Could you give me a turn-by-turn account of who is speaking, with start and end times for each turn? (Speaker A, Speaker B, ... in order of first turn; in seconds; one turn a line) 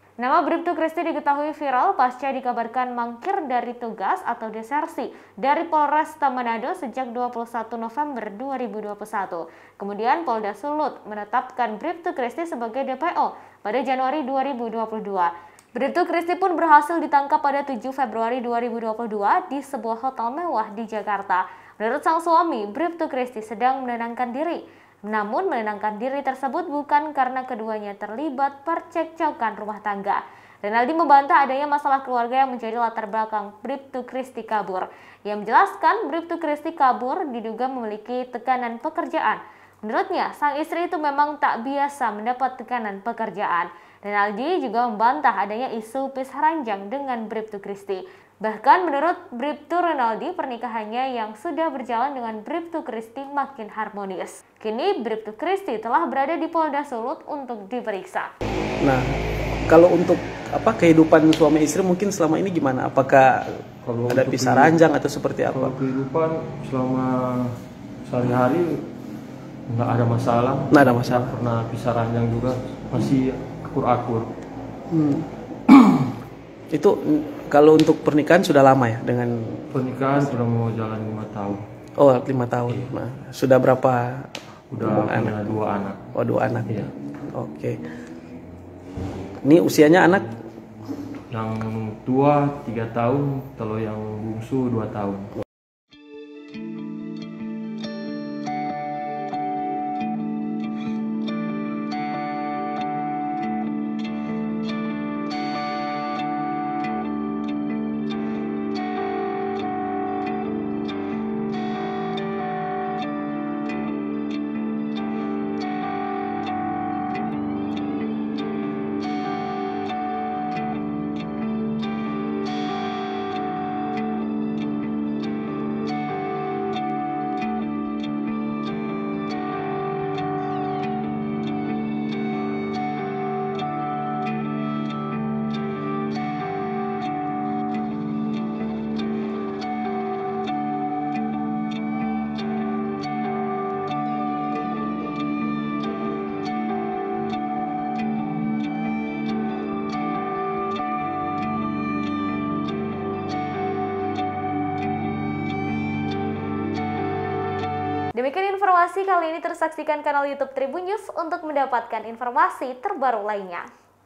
Speaker A: 0.2-58.3
Speaker B: 58.8-65.7
Speaker C: 63.8-64.8
Speaker C: 65.5-67.5
Speaker C: 68.1-68.9
Speaker C: 69.7-74.3
Speaker B: 70.7-71.3
Speaker B: 74.9-75.3
Speaker C: 75.8-76.1
Speaker B: 76.7-79.7
Speaker C: 79.7-81.6
Speaker B: 82.0-85.4
Speaker C: 84.7-86.0
Speaker B: 86.1-87.8
Speaker B: 89.4-90.3
Speaker C: 91.3-95.3
Speaker A: 158.2-163.7